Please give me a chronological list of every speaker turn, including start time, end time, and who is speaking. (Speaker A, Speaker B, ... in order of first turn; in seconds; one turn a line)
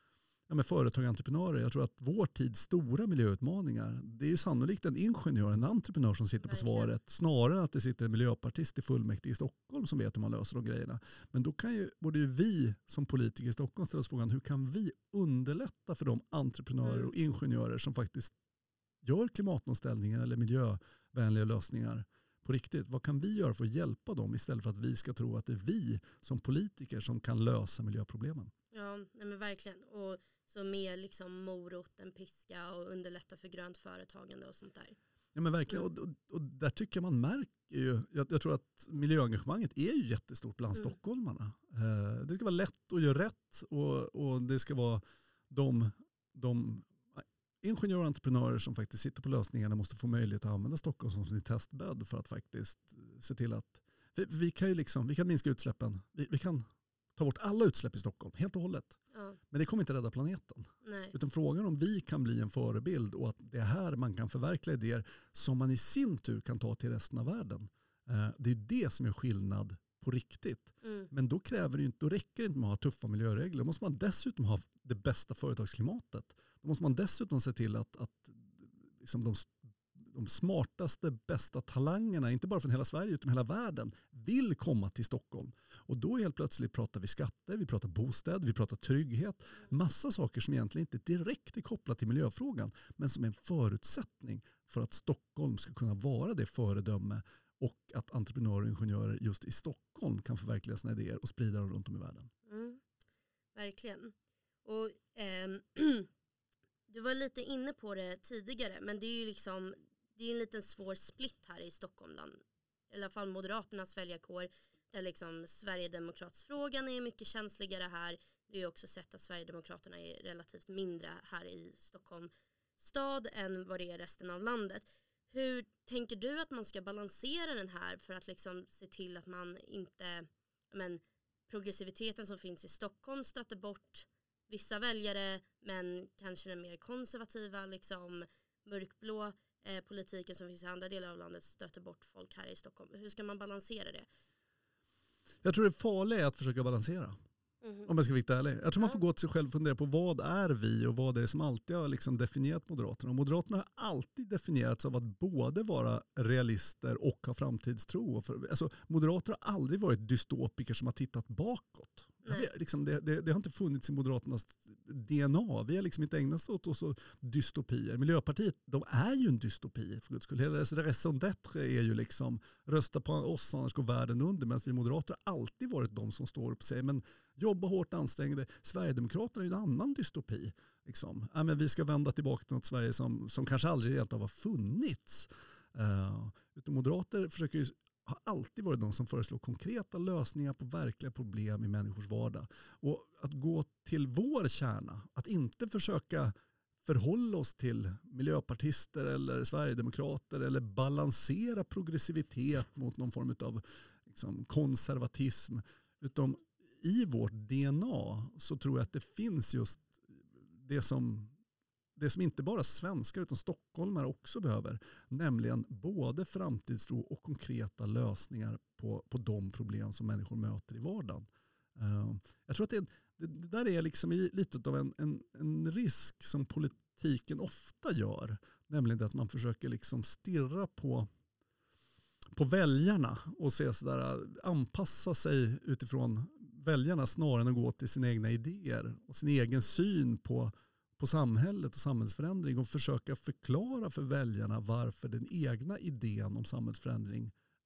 Speaker A: 0.5-18.3
Speaker B: 6.4-6.9
Speaker B: 16.8-17.1
Speaker A: 19.0-28.5
Speaker B: 28.7-35.0
Speaker A: 35.4-59.0
Speaker B: 59.1-59.4
Speaker A: 59.5-102.3
Speaker B: 60.8-61.1
Speaker B: 70.8-71.1
Speaker B: 102.5-102.8
Speaker B: 103.5-104.1
Speaker B: 104.7-106.1
Speaker B: 106.9-144.1
Speaker A: 145.4-147.2
Speaker B: 147.6-147.9
Speaker A: 147.9-211.3
Speaker A: 212.0-231.1
Speaker A: 232.3-247.3